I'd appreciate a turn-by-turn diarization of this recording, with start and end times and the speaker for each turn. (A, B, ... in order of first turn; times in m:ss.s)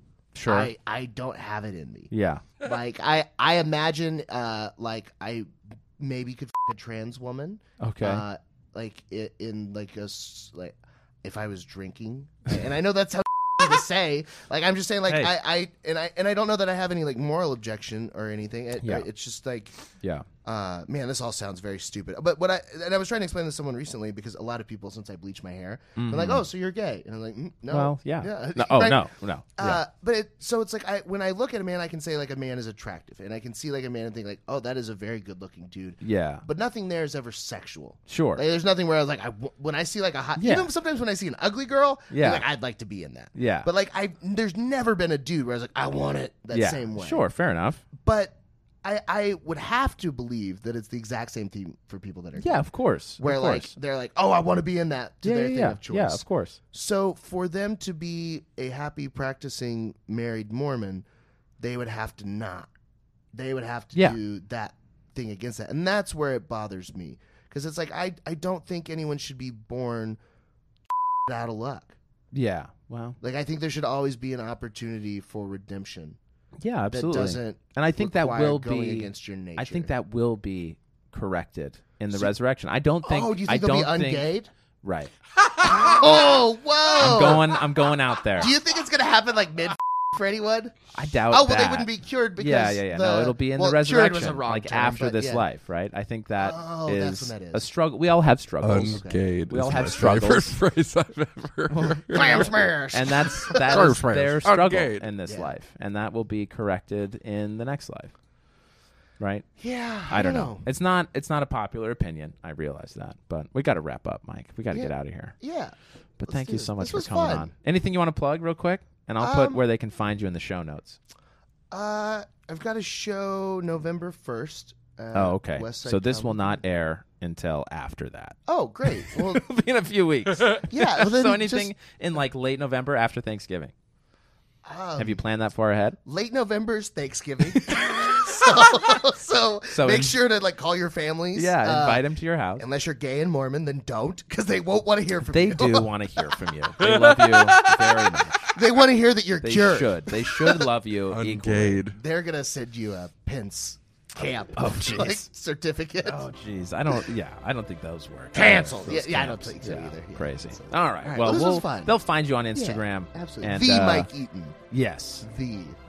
0:00.3-0:00.7 A
0:00.4-0:19.7 B
0:02.1-0:02.4 A
0:07.8-0:08.2 A
0:15.1-0:15.3 A
0:18.8-0:19.1 A
0:20.0-0:20.3 A
0:20.4-0:47.3 B
0:26.0-0:26.4 A
0:27.7-0:29.8 A
0:36.0-0:36.4 A
0:38.1-0:38.4 A
0:40.4-0:40.7 A
0:42.1-0:42.4 A
0:43.3-0:43.7 A
0:46.5-0:47.8 A
0:48.0-0:52.6 B
0:52.4-0:53.7 A
0:53.2-1:01.0 B
0:55.2-0:56.6 A
1:01.6-1:02.7 B
1:03.3-1:10.2 B
1:11.2-1:12.0 B
1:12.3-1:13.2 A
1:13.2-1:16.2 B
1:16.6-1:24.3 A
1:16.9-1:19.9 B
1:23.0-1:24.5 B
1:24.8-1:25.1 A
1:25.6-1:27.5 B
1:27.0-1:28.5 A
1:28.4-1:30.8 B
1:30.9-1:40.6 A
1:31.3-1:35.5 B
1:36.4-1:37.7 B
1:38.6-1:42.7 C
1:38.9-1:39.2 B
1:41.7-1:48.1 A
1:41.8-1:44.0 B
1:43.5-1:45.1 C
1:45.2-1:45.5 B
1:49.2-1:49.5 A
1:49.6-1:50.7 B
1:50.1-1:55.3 A
1:54.7-1:55.7 B
1:56.2-2:01.0 A
1:56.3-1:57.5 B
1:59.2-1:59.6 B
2:01.7-2:06.6 B
2:05.1-2:13.7 A
2:08.5-2:09.5 B
2:10.5-2:11.7 B
2:14.6-2:15.2 B
2:15.0-2:16.0 A
2:16.0-2:22.0 B
2:19.7-2:20.2 A
2:21.3-2:22.6 A
2:22.6-2:26.4 B
2:25.3-2:28.5 A
2:26.8-2:28.1 C
2:28.5-2:30.7 B
2:29.4-2:31.8 A
2:31.1-2:32.0 C
2:31.9-2:36.3 B
2:34.5-2:35.2 A
2:36.0-2:44.1 A
2:38.3-2:42.0 B
2:42.5-2:44.6 B
2:44.7-2:45.2 A
2:45.2-2:45.8 B